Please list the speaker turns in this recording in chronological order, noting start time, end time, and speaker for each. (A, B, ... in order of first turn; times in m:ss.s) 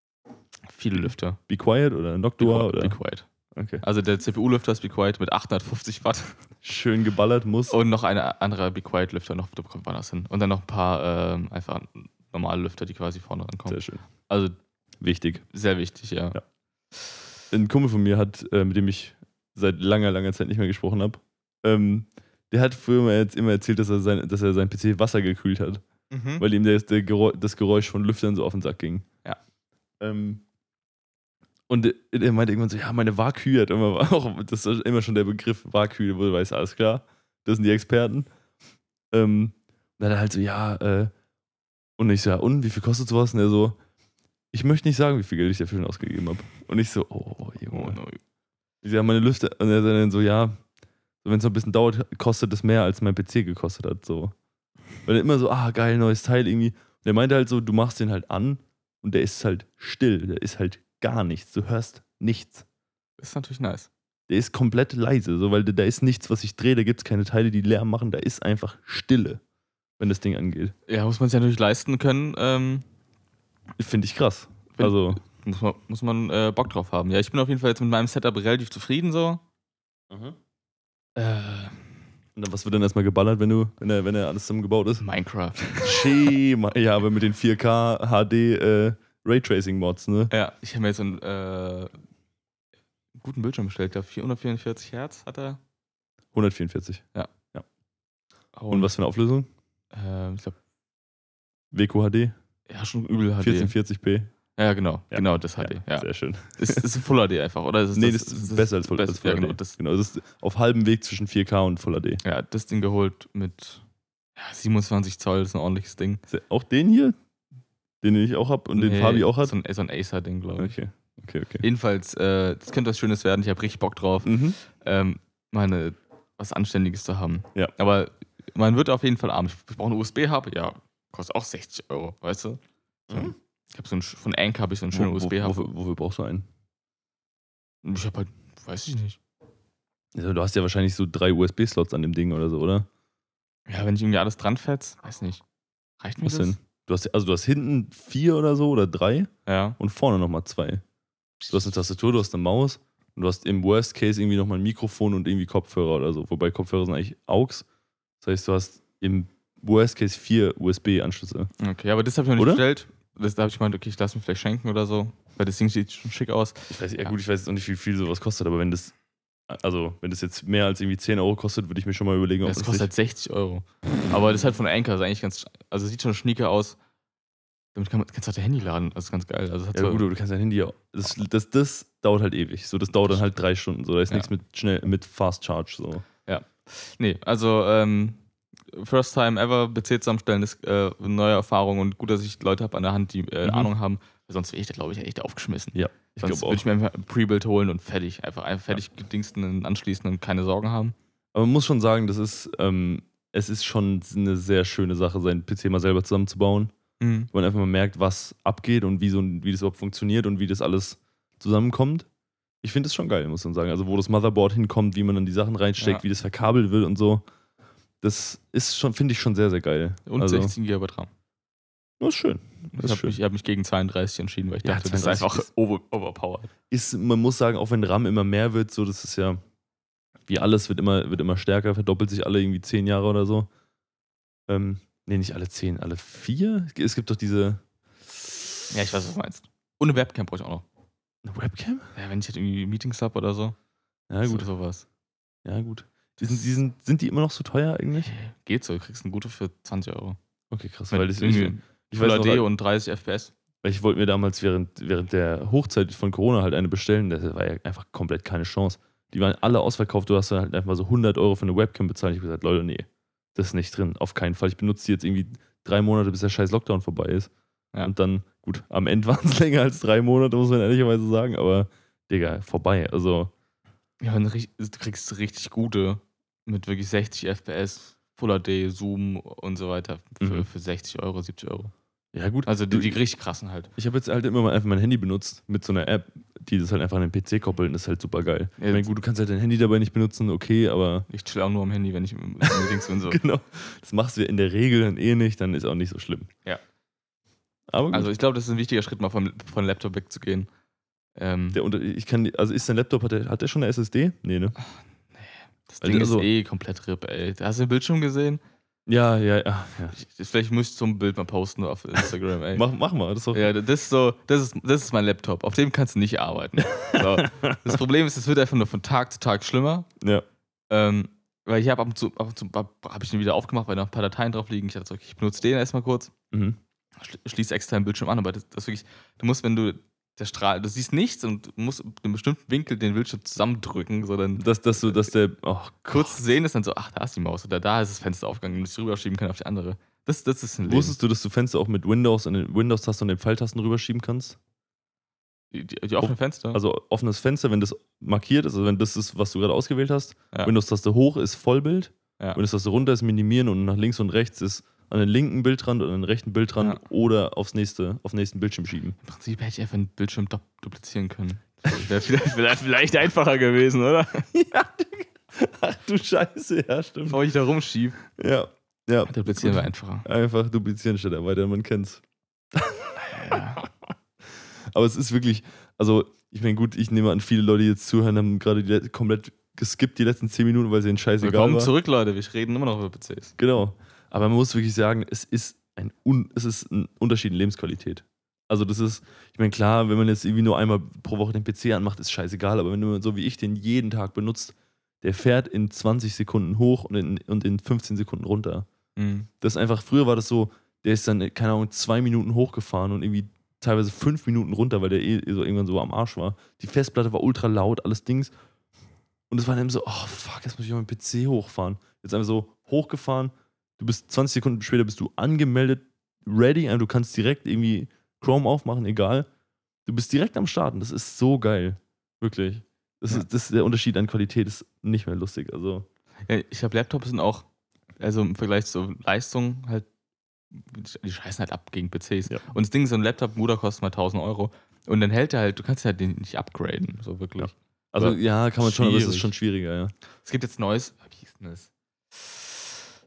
0:00.7-0:01.4 A
0:01.5-0:03.0 B
0:02.4-0:03.3 A
0:03.6-0:03.8 B
0:03.8-0:06.4 A
0:06.6-0:07.8 B
0:07.7-0:14.6 A
0:13.7-0:14.0 B
0:15.0-0:15.4 B
0:15.5-0:16.4 A
0:17.5-0:25.8 B
0:26.1-0:26.4 A
0:26.4-0:29.1 B
0:30.0-0:30.4 B
0:31.7-0:38.3 B
0:39.1-0:41.1 B
0:42.0-0:43.8 B
0:44.5-0:48.0 B
0:47.7-0:48.2 A
0:48.8-0:50.6 B
0:51.2-0:54.3 B
0:55.0-1:02.6 B
1:03.2-1:03.9 A
1:04.3-1:09.4 B
1:10.0-1:10.7 B
1:10.9-1:12.8 A
1:13.8-1:15.2 B
1:14.8-1:19.4 A
1:20.1-1:20.4 B
1:21.2-1:21.9 A
1:22.4-1:25.0 B
1:25.0-1:26.3 A
1:25.7-1:30.3 B
1:30.3-1:32.0 A
1:33.2-1:35.6 A
1:36.3-1:37.6 B
1:38.6-1:38.9 A
1:38.7-1:39.5 B
1:39.9-1:40.6 A
1:41.7-1:42.4 B
1:42.7-1:43.7 A
1:43.4-1:44.3 B
1:44.6-1:49.8 A
1:45.1-1:46.9 B
1:47.9-1:52.2 B
1:52.2-1:53.8 A
1:54.4-1:56.2 A
1:56.3-1:57.2 B
1:58.0-1:59.5 B
1:58.8-2:00.8 A
2:00.6-2:01.6 B
2:01.6-2:12.6 A
2:04.2-2:04.6 B
2:13.1-2:13.4 B
2:13.1-2:15.7 A
2:14.9-2:16.5 B
2:17.8-2:19.2 A
2:20.1-2:22.9 B
2:23.7-2:25.4 A
2:26.0-2:26.6 A
2:26.2-2:30.8 B
2:29.5-2:29.8 A
2:31.5-2:37.6 B
2:38.2-2:41.5 B
2:41.6-2:47.1 A
2:42.4-2:42.6 B
2:46.7-2:49.0 B
2:49.5-2:52.9 B
2:52.4-2:56.8 A
2:57.8-3:00.0 A
2:59.7-3:06.0 B
3:06.3-3:08.2 A
3:08.7-3:21.0 A
3:13.4-3:13.7 B
3:15.7-3:16.6 B
3:21.3-3:26.7 B
3:27.0-3:27.3 A
3:27.3-3:32.1 B
3:32.6-3:37.2 B
3:35.8-3:36.0 A
3:38.0-3:40.5 B
3:40.1-3:41.1 A
3:42.0-3:43.2 B
3:42.7-3:46.5 A
3:44.6-3:45.5 B
3:46.7-3:49.4 B
3:50.3-3:53.5 B
3:54.5-3:57.6 B
3:58.7-4:00.6 A
4:01.2-4:01.9 B
4:02.0-4:03.6 A
4:04.1-4:04.5 B
4:04.2-4:04.8 A
4:05.4-4:08.1 B
4:06.2-4:06.5 A
4:08.0-4:10.2 A
4:10.5-4:12.4 B
4:10.9-4:13.3 A
4:13.6-4:27.3 B
4:27.8-4:33.3 B
4:34.0-4:41.7 A
4:40.2-4:40.5 B
4:42.1-4:43.0 B
4:42.4-4:43.7 A
4:43.8-4:51.1 B
4:48.6-4:48.9 A
4:51.1-4:53.2 A
4:52.5-4:56.3 B
4:57.7-4:58.1 B
4:57.9-5:00.5 A
5:01.2-5:01.6 A
5:01.5-5:04.6 B
5:05.2-5:08.4 A
5:05.8-5:06.3 B
5:08.9-5:10.0 B
5:09.9-5:12.6 A
5:12.5-5:13.5 B
5:13.3-5:19.9 A
5:16.9-5:17.8 B
5:20.7-5:26.1 A
5:26.3-5:26.6 B
5:27.0-5:35.0 A
5:34.4-5:36.2 B
5:35.9-5:41.0 A
5:40.6-5:44.4 B
5:45.5-5:46.6 A
5:46.0-5:59.0 B
5:59.0-6:04.3 A
6:04.3-6:07.2 B
6:07.1-6:08.0 A
6:08.2-6:12.0 B
6:09.1-6:10.1 A
6:12.5-6:13.7 B
6:13.0-6:13.6 A
6:14.7-6:21.7 B
6:21.2-6:23.3 A
6:23.4-6:38.7 B
6:39.0-6:39.3 A
6:39.4-6:48.3 B
6:49.3-6:59.3 B
6:59.9-7:05.9 B
7:06.3-7:07.5 A
7:08.0-7:09.9 A
7:10.5-7:19.3 A
7:17.4-7:19.9 B
7:20.2-7:22.6 A